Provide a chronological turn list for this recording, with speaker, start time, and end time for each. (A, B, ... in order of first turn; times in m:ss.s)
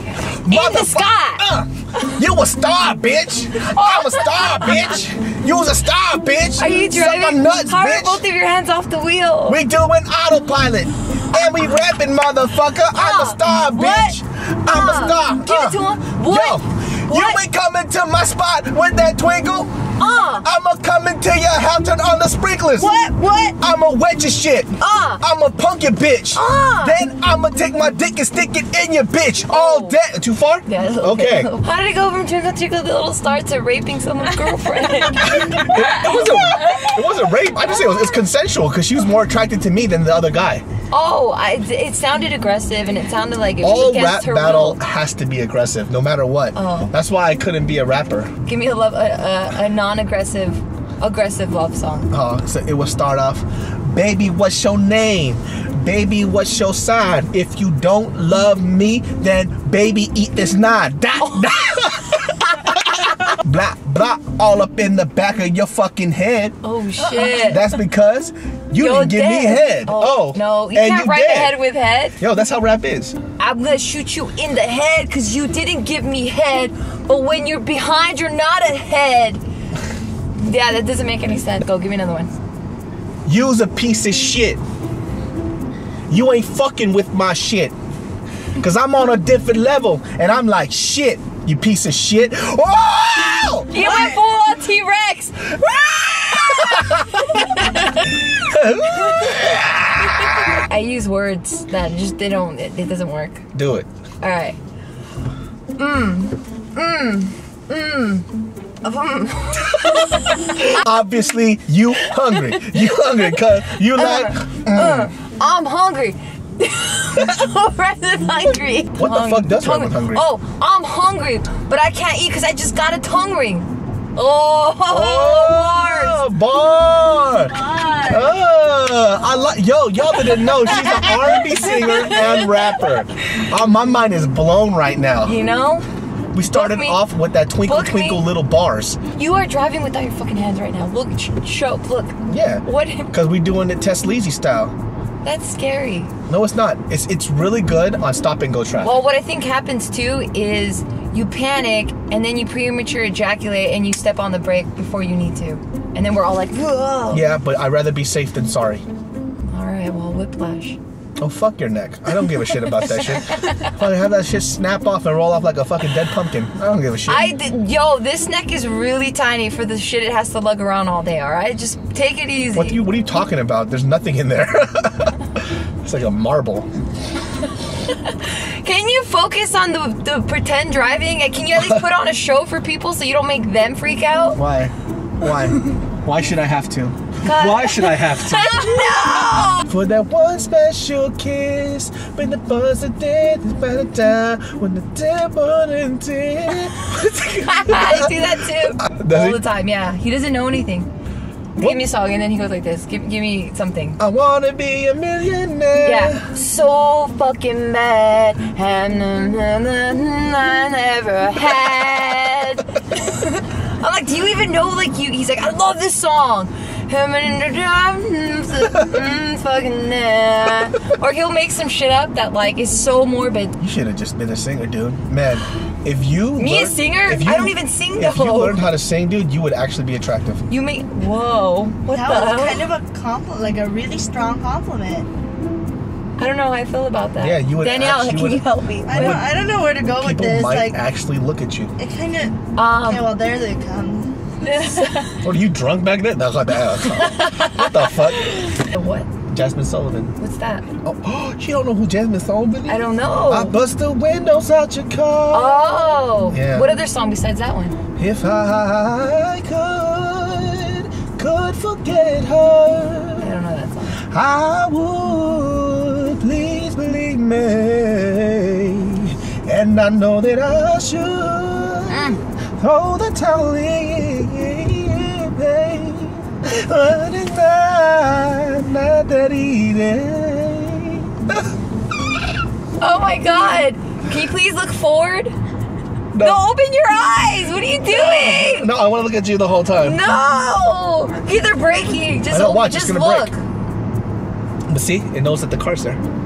0:00.2-0:08.2 A
0:00.4-0:01.5 B
0:03.6-0:04.9 B
0:06.5-0:09.6 B
0:09.5-0:19.8 A
0:12.9-0:17.4 B
0:20.0-0:20.5 B
0:20.4-0:23.0 A
0:22.8-0:23.6 C
0:22.8-0:23.3 B
0:23.5-0:31.5 A
0:24.8-0:25.2 B
0:26.3-0:27.0 B
0:29.5-0:30.0 B
0:30.6-0:37.0 B
0:35.2-0:40.6 A
0:40.9-0:44.8 B
0:43.6-0:48.3 A
0:46.5-0:46.9 B
0:48.4-0:52.1 B
0:52.1-1:06.6 A
1:01.2-1:02.1 B
1:06.6-1:07.8 B
1:07.1-1:11.6 A
1:08.7-1:12.2 B
1:12.2-1:13.2 A
1:13.4-1:19.4 B
1:20.4-1:22.3 B
1:23.2-1:24.6 A
1:26.1-1:27.7 A
1:28.6-1:33.7 A
1:33.7-1:35.8 B
1:33.8-1:34.2 C
1:35.6-1:37.6 A
1:36.3-1:38.2 B
1:38.3-1:40.6 A
1:39.0-1:39.5 B
1:40.4-1:43.4 B
1:43.5-1:43.9 A
1:44.2-1:44.6 B
1:45.8-1:48.3 B
1:48.8-1:50.8 B
1:49.8-1:55.1 A
1:52.2-1:53.3 B
1:53.8-2:06.2 B
1:58.9-2:00.2 A
2:04.9-2:15.4 A
2:07.5-2:08.3 C
2:10.5-2:12.6 B
2:15.2-2:15.8 B
2:16.3-2:19.0 A
2:16.4-2:18.3 B
2:19.1-2:23.1 B
2:22.3-2:24.7 A
2:25.2-2:26.1 B
2:26.3-2:29.0 A
2:28.8-2:37.3 B
2:37.1-2:38.8 A
2:39.5-2:40.8 B
2:41.2-2:47.3 A
2:42.7-2:43.7 B
2:47.0-2:52.8 B
2:52.5-2:56.7 A
2:57.9-3:04.4 B
3:01.5-3:01.8 A
3:04.3-3:09.1 A
3:07.2-3:09.7 B
3:09.6-3:19.4 A
3:17.0-3:20.9 B
3:21.6-3:24.0 B
3:24.0-3:26.3 A
3:25.8-3:43.6 B
3:38.7-3:39.0 A
3:43.6-3:50.4 A
3:46.4-3:48.6 B
3:50.5-3:52.7 B
3:51.9-3:55.1 C
3:56.2-3:59.3 B
3:57.2-3:59.3 A
3:58.8-4:00.8 C
3:59.9-4:01.7 A
4:01.8-4:04.8 C
4:02.5-4:03.1 B
4:04.4-4:05.3 B
4:05.2-4:08.5 A
4:06.8-4:09.1 B
4:09.3-4:10.1 A
4:10.2-4:10.7 B
4:10.8-4:16.8 A
4:12.7-4:13.6 B
4:15.3-4:17.8 B
4:18.0-4:23.3 A
4:23.2-4:24.0 B
4:24.0-4:41.5 A
4:31.9-4:32.2 B
4:42.8-4:45.4 B
4:46.1-4:46.4 A
4:46.2-4:48.7 B
4:47.8-4:50.0 A
4:49.8-4:53.4 B
4:52.3-4:53.3 A
4:54.7-4:56.0 A